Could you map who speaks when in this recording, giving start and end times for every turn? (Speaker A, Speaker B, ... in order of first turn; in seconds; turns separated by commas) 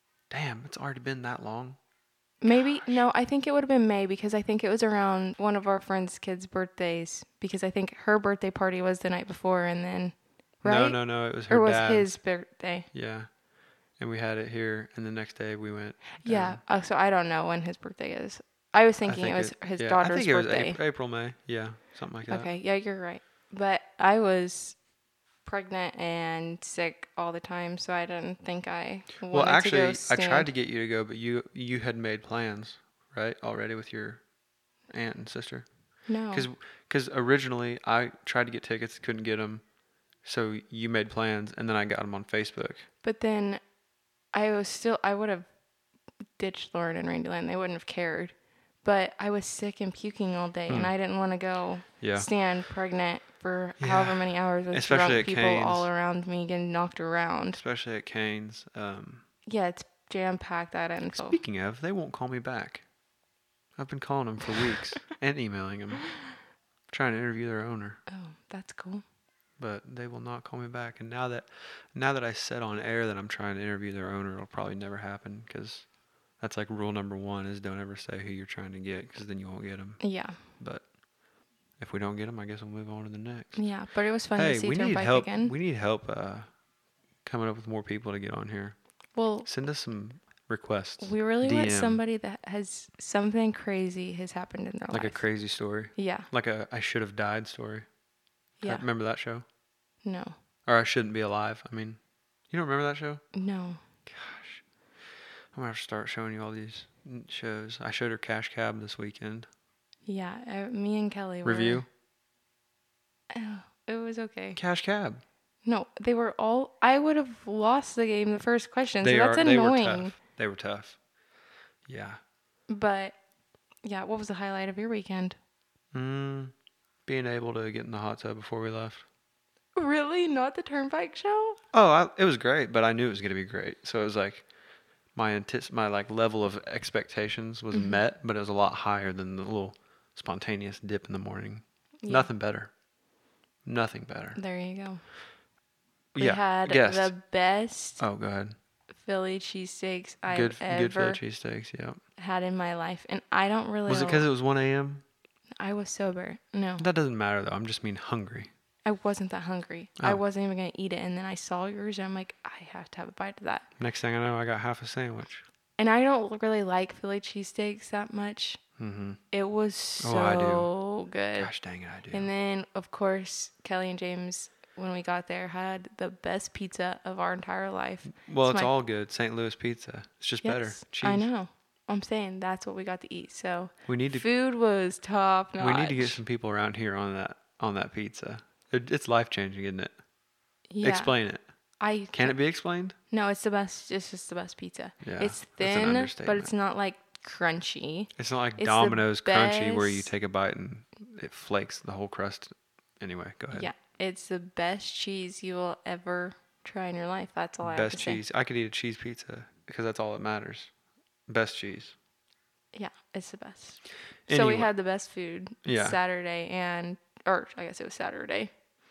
Speaker A: 0.3-1.8, Speaker B: 2.4-12.9, Speaker A: 2.5-3.0, Speaker A: 10.6-12.2, Speaker A: 12.9-13.3, Speaker A: 14.0-16.6, Speaker B: 16.2-20.8, Speaker A: 19.0-22.5, Speaker B: 22.3-24.8, Speaker B: 25.4-30.5, Speaker A: 29.3-34.2, Speaker A: 34.9-35.6, Speaker B: 36.1-36.5, Speaker A: 36.3-39.6, Speaker A: 40.2-42.8, Speaker B: 43.0-43.6, Speaker B: 44.3-45.5, Speaker B: 46.4-57.6, Speaker A: 50.7-51.0, Speaker A: 52.0-52.3, Speaker A: 53.8-55.9, Speaker A: 57.5-59.2, Speaker B: 59.5-61.4, Speaker A: 61.1-62.8, Speaker A: 63.8-66.2, Speaker A: 66.9-68.0, Speaker B: 68.1-69.0, Speaker A: 69.6-80.9, Speaker B: 80.0-80.4, Speaker A: 81.8-83.6, Speaker B: 83.5-85.5, Speaker A: 84.3-86.5, Speaker A: 87.2-88.8, Speaker B: 89.1-89.5, Speaker A: 89.4-92.0, Speaker B: 91.0-95.2, Speaker A: 94.9-97.9, Speaker B: 95.9-96.3, Speaker B: 98.6-98.8, Speaker A: 98.6-99.4, Speaker B: 100.0-100.3, Speaker A: 100.7-102.0, Speaker A: 102.5-103.2, Speaker B: 103.3-103.8, Speaker A: 104.0-104.6, Speaker A: 105.5-109.5, Speaker B: 110.0-111.8, Speaker A: 111.4-111.9, Speaker B: 113.3-114.6, Speaker A: 114.5-115.2, Speaker B: 115.6-120.1, Speaker A: 119.0-121.0, Speaker A: 121.9-122.2, Speaker B: 122.7-123.2, Speaker B: 123.8-125.4, Speaker A: 125.9-126.5, Speaker A: 127.0-129.0, Speaker B: 129.8-131.6, Speaker A: 131.7-134.5, Speaker A: 135.1-142.7, Speaker B: 137.7-138.0, Speaker B: 142.0-142.3, Speaker A: 143.6-144.4, Speaker B: 144.3-145.0, Speaker A: 146.1-147.1, Speaker B: 146.2-148.0, Speaker A: 148.0-148.5, Speaker B: 149.0-151.2, Speaker A: 150.3-152.0, Speaker B: 152.2-154.2, Speaker A: 153.9-155.0, Speaker B: 155.6-156.8, Speaker A: 156.8-158.5, Speaker B: 158.8-163.6, Speaker A: 163.8-165.4, Speaker B: 165.8-168.6, Speaker A: 168.8-169.2, Speaker B: 169.3-171.5, Speaker A: 170.0-170.7, Speaker A: 171.3-172.3, Speaker B: 172.1-178.7, Speaker A: 178.1-181.3, Speaker B: 180.4-186.2, Speaker A: 183.8-184.3, Speaker A: 185.6-189.9, Speaker B: 190.7-191.2, Speaker A: 190.8-191.4, Speaker B: 191.8-192.4, Speaker A: 192.1-192.9, Speaker B: 193.1-200.1, Speaker A: 195.0-196.5, Speaker A: 198.2-203.7, Speaker B: 203.5-208.2, Speaker A: 207.6-210.7, Speaker A: 211.3-211.9, Speaker B: 212.7-218.5, Speaker A: 214.3-214.7, Speaker A: 215.6-216.0